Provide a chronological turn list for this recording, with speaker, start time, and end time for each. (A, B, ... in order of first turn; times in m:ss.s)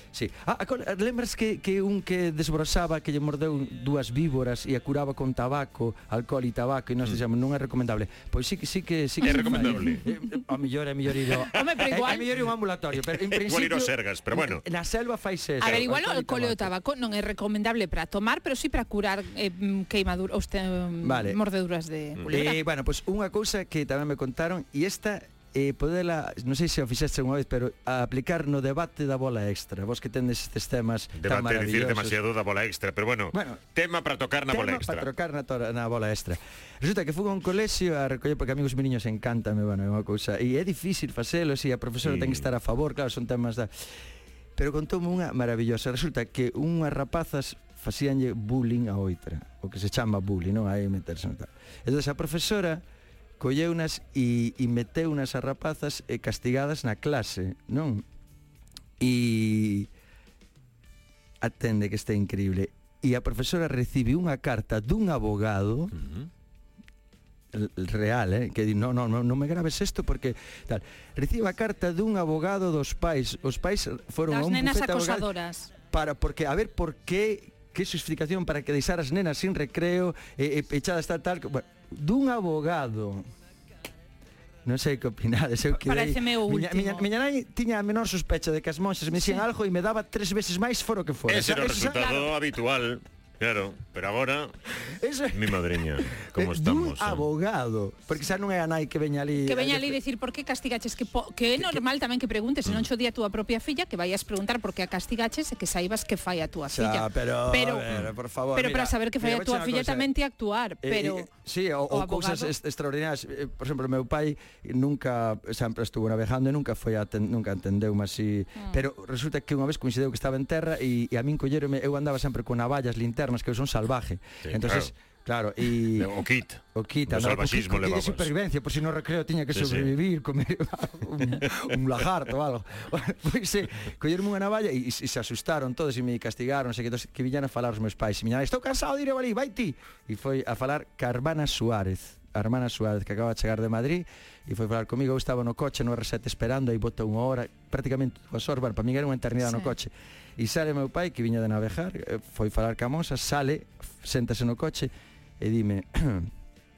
0:00.1-0:16.7 A
0:09.2-0:10.0 B
0:09.7-0:10.0 C
0:11.4-0:12.3 C
0:13.1-0:14.6 B
0:15.6-0:22.6 C
0:21.0-0:21.4 A
0:22.2-0:32.2 A
0:31.2-0:35.1 B
0:33.3-0:33.6 A
0:34.5-0:43.7 A
0:42.0-0:42.5 B
0:44.6-0:52.8 A
0:53.4-0:58.0 A
0:59.0-0:59.9 A
1:01.4-1:06.0 A
1:07.5-1:15.3 A
1:14.3-1:15.7 C
1:15.8-1:23.2 A
1:24.6-1:32.0 A
1:25.7-1:27.1 C
1:31.3-1:34.5 B
1:31.9-1:32.3 C
1:35.0-1:40.0 A
1:35.3-1:37.2 B
1:39.4-1:47.9 C
1:41.6-1:41.8 A
1:46.7-1:50.1 A
1:48.5-1:51.3 C
1:50.8-2:06.1 A
1:51.9-1:52.5 C
1:58.6-1:58.8 C
2:04.4-2:04.9 B
2:05.8-2:08.3 B
2:06.7-2:36.3 A
2:09.5-2:09.9 B
2:29.4-2:29.7 C